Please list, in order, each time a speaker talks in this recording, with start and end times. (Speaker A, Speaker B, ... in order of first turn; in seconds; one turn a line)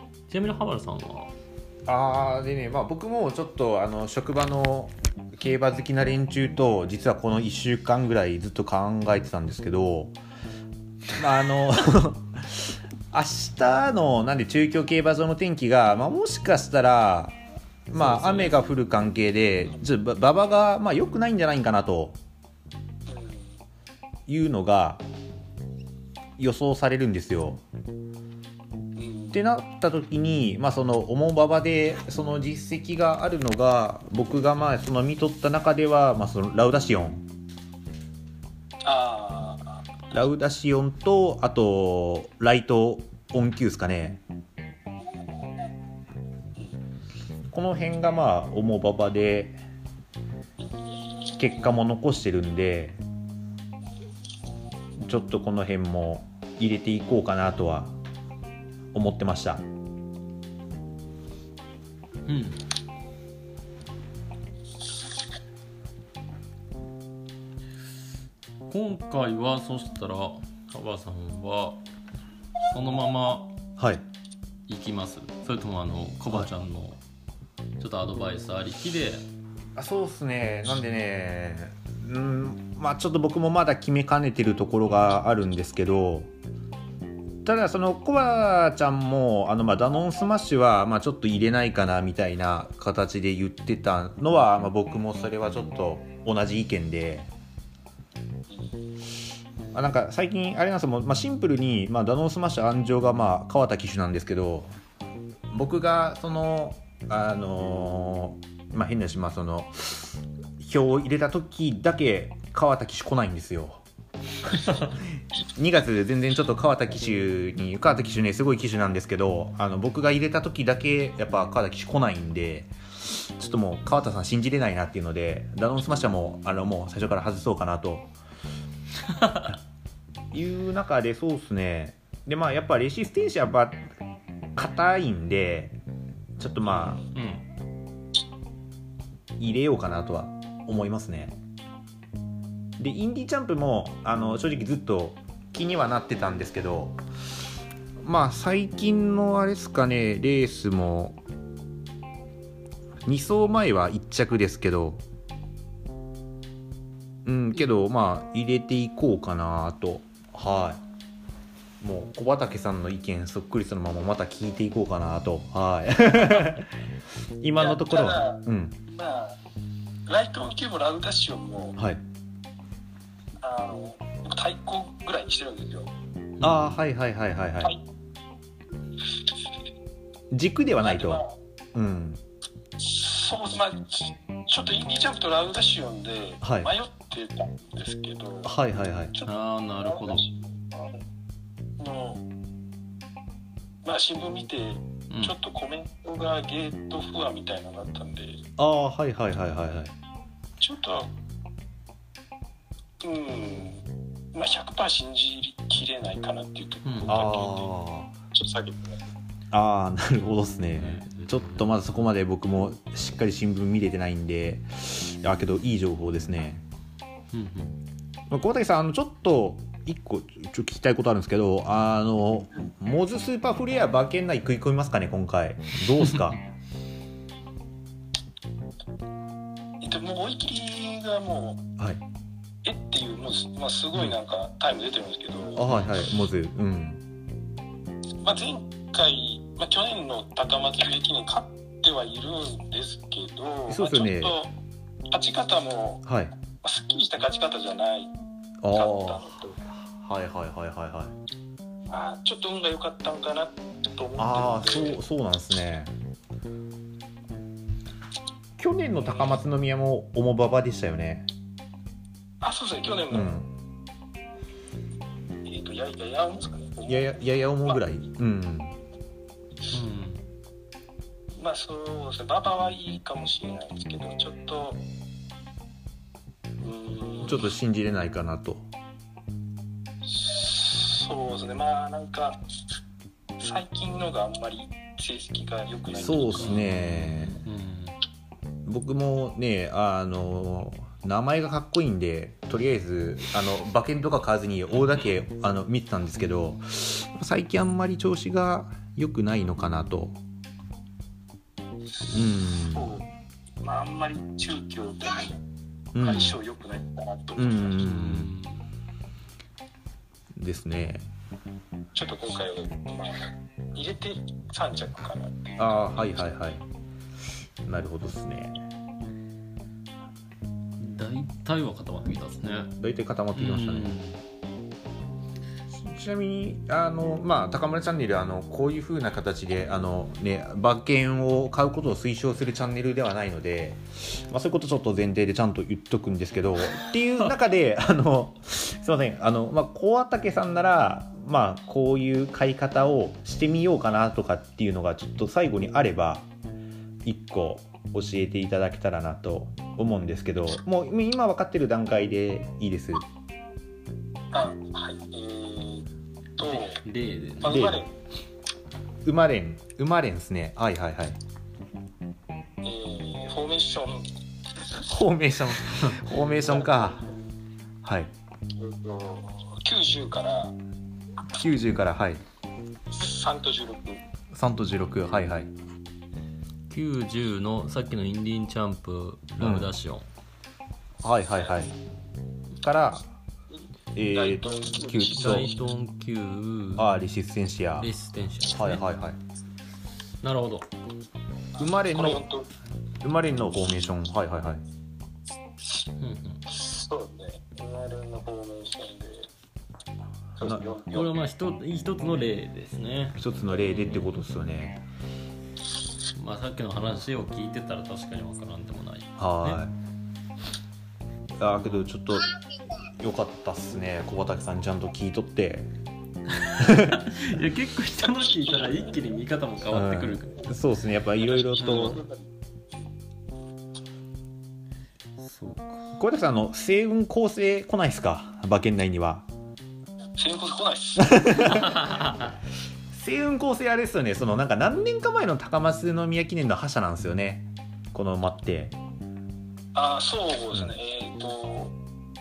Speaker A: 0.3-1.3
Speaker B: 1.9-10.2
Speaker B: 11.2-17.4
Speaker B: 17.9-22.2
Speaker A: 17.9-18.7
Speaker C: 23.1-23.6
Speaker B: 24.3-25.0
Speaker B: 26.4-27.6
Speaker C: 28.9-29.4
Speaker B: 29.3-37.2
Speaker C: 38.8-39.8
Speaker B: 40.1-44.2
Speaker B: 47.5-49.6
Speaker B: 51.4-53.0
Speaker B: 55.0-57.9
Speaker B: 58.9-59.6
Speaker A: 62.2-62.6
Speaker A: 68.7-71.8
Speaker A: 72.7-73.5
Speaker B: 73.8-74.0
Speaker A: 74.7-77.0
Speaker A: 77.8-79.2
Speaker B: 79.8-86.3
Speaker B: 87.4-97.3
Speaker C: 98.5-98.8
Speaker B: 99.7-104.7
Speaker B: 105.5-113.8
Speaker B: 115.5-128.1
Speaker A: 129.1-129.5
Speaker B: 130.3-133.9
Speaker B: 134.6-135.8
Speaker B: 136.4-137.0
Speaker A: 136.8-137.4
Speaker B: 139.4-141.4
Speaker B: 142.8-147.0
Speaker B: 148.0-151.2
Speaker B: 153.1-155.0
Speaker B: 157.2-160.8
Speaker B: 161.8-166.7
Speaker B: 167.4-168.8
Speaker C: 167.6-169.4
Speaker C: 170.1-171.8
Speaker B: 171.8-172.0
Speaker C: 173.4-175.9
Speaker A: 176.4-176.8
Speaker B: 176.4-177.7
Speaker B: 180.3-182.2
Speaker C: 180.8-181.4
Speaker C: 182.8-188.6
Speaker B: 186.4-186.7
Speaker B: 188.4-189.1
Speaker C: 189.1-191.0
Speaker A: 189.2-190.2
Speaker C: 191.8-192.2
Speaker C: 193.8-198.4
Speaker A: 195.1-195.3
Speaker B: 198.6-199.9
Speaker C: 200.6-201.1
Speaker C: 203.0-203.8
Speaker C: 204.3-207.4
Speaker A: 206.8-207.7
Speaker B: 207.1-208.1
Speaker C: 208.3-209.0
Speaker B: 209.5-216.6
Speaker A: 210.7-211.7
Speaker A: 217.3-217.8
Speaker B: 218.3-226.4
Speaker A: 226.0-226.3
Speaker C: 229.8-231.6
Speaker C: 232.6-235.7
Speaker B: 235.6-237.0
Speaker A: 235.7-236.0
Speaker C: 238.2-244.5
Speaker B: 243.7-244.4
Speaker C: 245.1-246.0
Speaker B: 246.0-246.3
Speaker C: 246.6-248.1
Speaker B: 248.6-251.1
Speaker C: 248.7-249.6
Speaker C: 251.9-255.0
Speaker B: 254.2-255.9
Speaker B: 258.6-261.3
Speaker C: 259.0-259.4
Speaker C: 262.4-263.3
Speaker B: 263.1-263.5
Speaker C: 265.4-267.8
Speaker B: 266.9-268.8
Speaker A: 269.7-270.2
Speaker C: 271.4-274.8
Speaker C: 276.6-277.5
Speaker B: 277.2-278.7
Speaker C: 280.0-282.4
Speaker C: 283.4-286.6
Speaker B: 285.9-287.4
Speaker A: 286.4-287.9
Speaker B: 288.6-300.2
Speaker A: 294.7-295.1
Speaker C: 302.0-303.1
Speaker B: 302.1-302.9
Speaker C: 303.6-305.4
Speaker B: 305.9-306.4
Speaker C: 306.0-307.8
Speaker B: 307.4-308.3
Speaker A: 307.8-308.6
Speaker B: 310.4-311.1
Speaker C: 311.9-316.0
Speaker B: 315.6-316.6
Speaker B: 317.6-318.6
Speaker A: 320.8-322.7
Speaker B: 322.8-323.9
Speaker A: 323.3-324.2
Speaker B: 325.7-346.3
Speaker B: 347.0-353.0
Speaker C: 354.3-355.9
Speaker C: 356.4-356.8
Speaker A: 356.5-357.8
Speaker C: 357.4-357.9
Speaker B: 357.4-357.8
Speaker B: 359.0-361.2
Speaker C: 362.6-364.1
Speaker B: 364.8-367.0
Speaker C: 366.4-367.3
Speaker B: 367.8-368.1
Speaker C: 368.6-370.5
Speaker B: 371.3-372.2
Speaker C: 372.9-374.0
Speaker B: 374.3-375.5
Speaker A: 376.7-380.0
Speaker B: 379.4-379.7
Speaker B: 381.0-381.7
Speaker C: 381.3-381.7
Speaker B: 382.6-383.1
Speaker C: 383.5-385.5
Speaker B: 383.9-385.5
Speaker A: 385.1-386.9
Speaker B: 386.8-387.9
Speaker A: 387.8-388.8
Speaker B: 388.5-389.2
Speaker A: 390.2-390.7
Speaker B: 391.6-392.2
Speaker C: 391.6-392.5
Speaker B: 393.0-394.6
Speaker A: 396.0-396.4
Speaker C: 396.5-399.3
Speaker C: 400.4-401.2
Speaker B: 400.4-400.6
Speaker A: 400.9-404.2
Speaker B: 403.2-404.8
Speaker A: 406.1-409.6
Speaker B: 409.2-409.7
Speaker B: 411.4-412.4
Speaker B: 413.0-415.7
Speaker A: 416.4-420.4
Speaker B: 416.6-417.0
Speaker C: 418.2-418.8
Speaker B: 419.7-422.0
Speaker C: 421.2-422.2
Speaker A: 421.6-422.0
Speaker A: 425.2-426.0
Speaker B: 426.0-429.2
Speaker C: 430.2-431.6
Speaker B: 431.0-431.8
Speaker A: 431.3-432.3
Speaker B: 432.9-438.8
Speaker C: 439.7-441.8